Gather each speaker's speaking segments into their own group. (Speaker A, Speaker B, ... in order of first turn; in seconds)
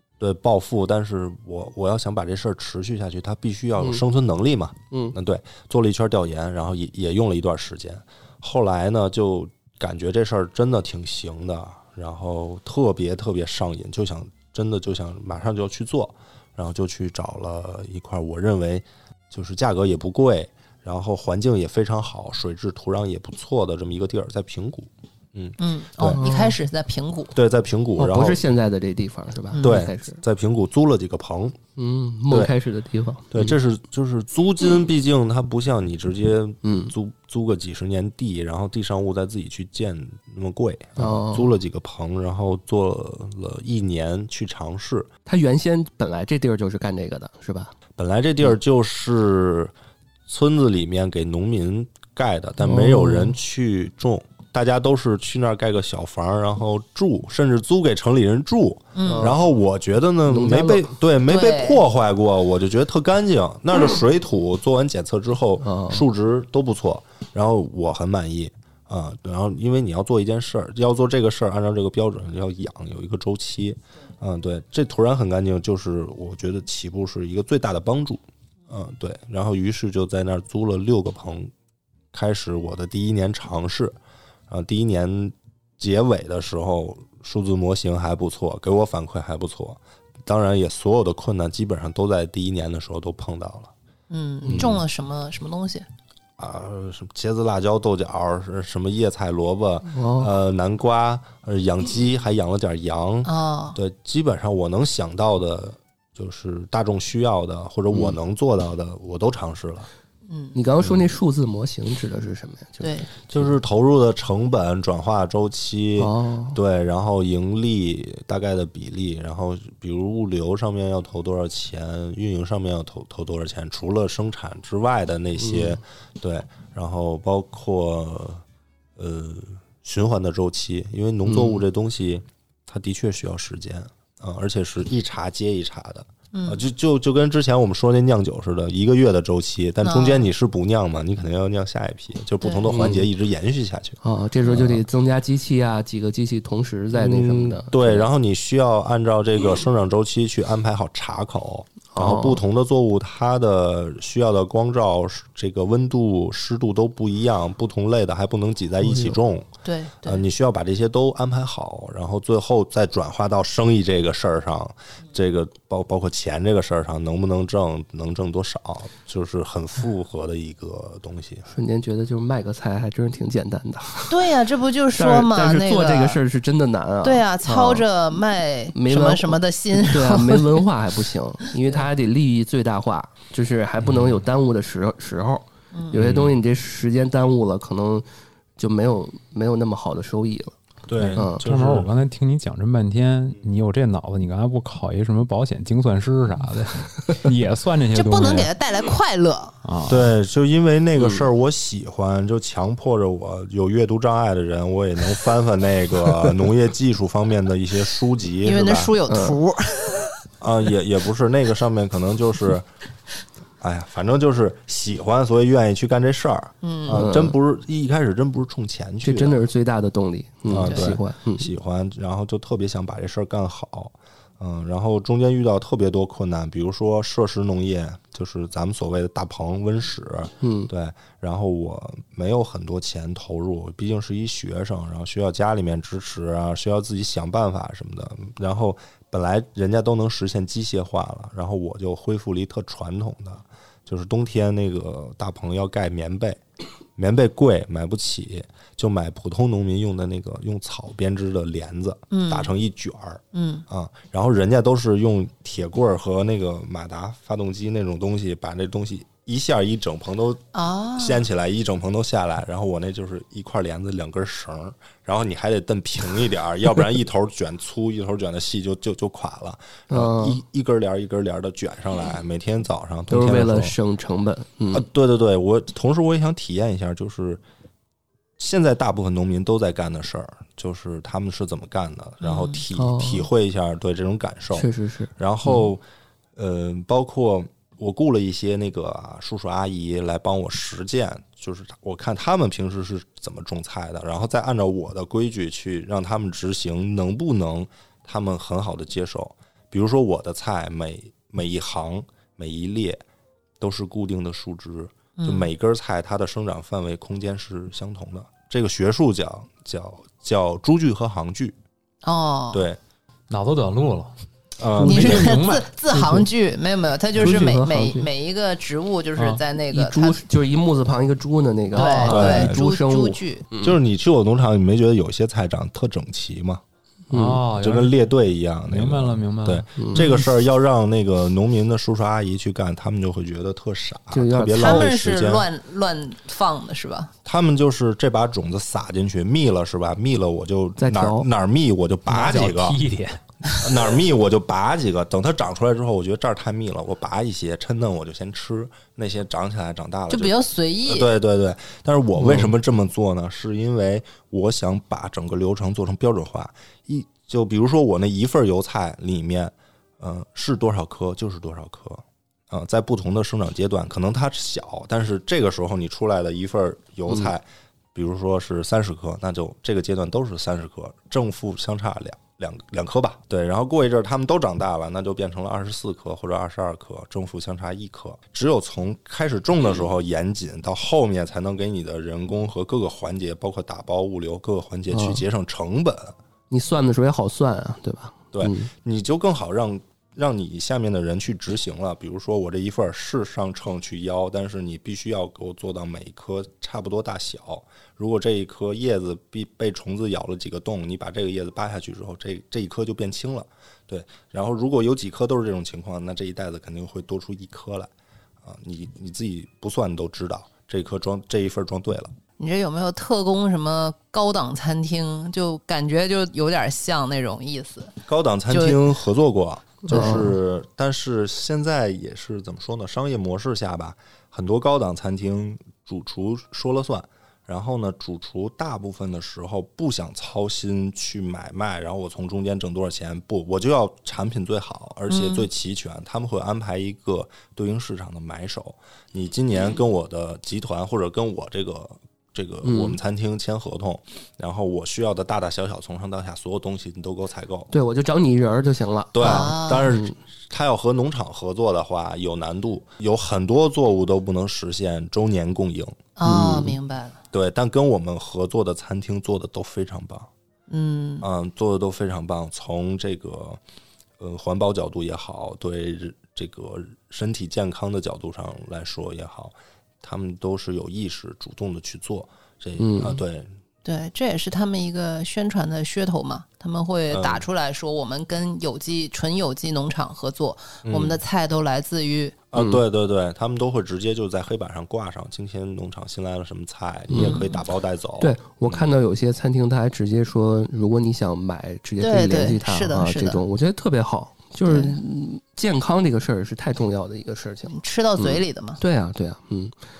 Speaker A: 0.2-26.2, 27.3-28.4, 29.6-31.6, 33.3-45.1, 48.0-49.7, 50.3-81.5, 82.1-84.0, 84.5-93.7, 94.5-94.8, 96.4-109.9, 113.3-128.4, 128.9-144.8, 146.9-159.5, 160.0-171.5, 185.9-186.3, 190.9-191.9, 199.9-208.9, 210.4-212.7, 213.6-219.4, 220.5-246.4, 247.0-260.4, 260.9-273.7, 274.7-277.4, 278.4-285.8, 286.3-303.0, 303.6-311.6, 312.5-312.8, 314.6-315.4, 322.0-322.6, 323.6-326.6, 327.5-335.5, 337.2-342.8, 343.5-386.1, 388.3-407.9, 408.4-412.1, 418.1-447.7, 449.1-456.0, 457.3-460.3, 461.2-463.6, 464.2-473.5, 477.1-477.4, 480.8-481.2, 482.5-488.8
Speaker B: 3.8-4.0, 26.0-26.6, 28.0-30.2, 31.8-33.5, 36.6-36.9, 41.0-41.5, 45.2-47.7, 52.6-53.4, 59.0-59.4, 60.2-60.9, 65.6-66.0, 94.4-94.8, 99.9-100.3, 107.9-108.2, 110.5-113.4, 116.0-116.6, 125.4-125.8, 131.2-131.6, 142.7-143.1, 144.0-148.1, 151.9-152.4, 158.8-159.2, 171.5-174.2, 174.9-177.8, 178.7-188.1, 188.6-190.6, 191.2-191.4, 201.0-201.2, 209.1-209.4, 216.9-217.3, 219.0-221.5, 230.4-230.7, 269.9-270.4, 273.1-274.9, 282.7-283.3, 284.5-285.6, 315.9-316.3, 317.1-318.1, 319.2-323.8, 327.1-327.4, 329.8-330.1, 334.1-334.9, 340.8-341.3, 352.2-352.5, 384.9-385.2, 386.5-388.7, 419.8-420.3, 442.6-443.0, 447.7-450.2, 456.2-456.8, 472.8-473.2, 482.5-482.8, 487.1-487.4, 488.2-499.8
Speaker C: 25.6-27.3, 29.5-29.8, 58.9-59.3, 61.2-61.8, 94.1-95.9, 103.2-103.8, 110.3-110.5, 112.8-113.1, 136.3-136.6, 139.8-140.3, 142.4-142.8, 159.6-160.2, 174.1-176.2, 177.0-180.5, 185.7-186.0, 197.9-199.6, 208.4-210.2, 216.6-217.1, 220.6-220.9, 252.1-252.5, 253.3-253.6, 260.5-261.2, 282.2-282.6, 305.2-305.5, 312.0-312.6, 314.9-320.2, 321.7-323.5, 334.5-337.1, 350.1-351.1, 412.4-417.9, 418.5-418.8, 435.1-435.4, 449.2-449.9, 456.2-457.2, 460.7-461.2, 473.8-482.4, 487.1-487.6, 492.0-493.4, 494.6-495.0, 497.7-498.8
Speaker D: 191.0-198.5, 199.6-200.1, 313.3-314.1, 314.7-315.7, 327.1-328.0, 328.7-330.3, 342.1-343.8